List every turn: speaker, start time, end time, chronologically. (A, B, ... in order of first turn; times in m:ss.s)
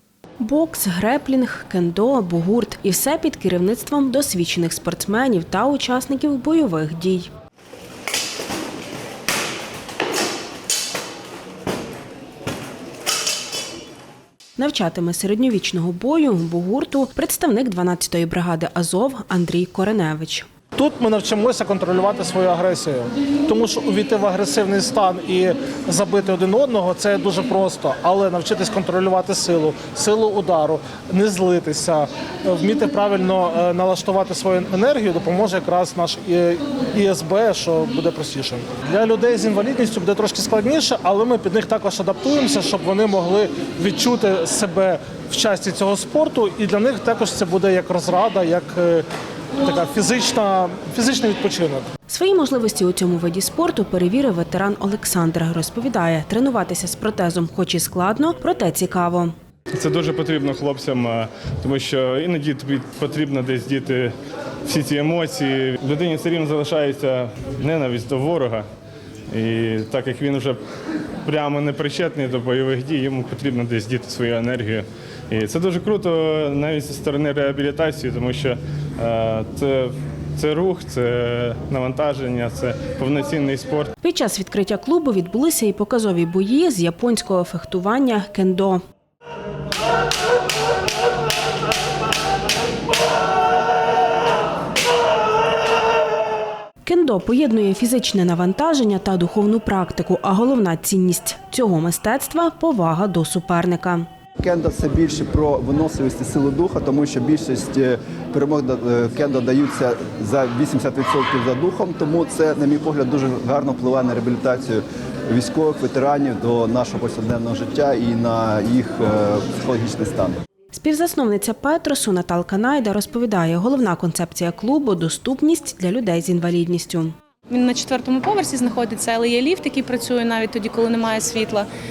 0:00.4-0:07.3 A
0:14.6-0:20.5 A
0:20.7-0:49.0 B
0:49.6-0:51.9 B
0:52.1-0:59.3 A
0:59.7-1:04.1 C
1:04.6-1:08.7 C
1:09.3-1:10.6 C
1:11.2-1:23.9 C
1:24.0-1:28.8 A
1:36.8-1:44.1 A
1:44.4-2:00.4 D
2:00.7-2:07.1 A
2:07.5-2:11.7 E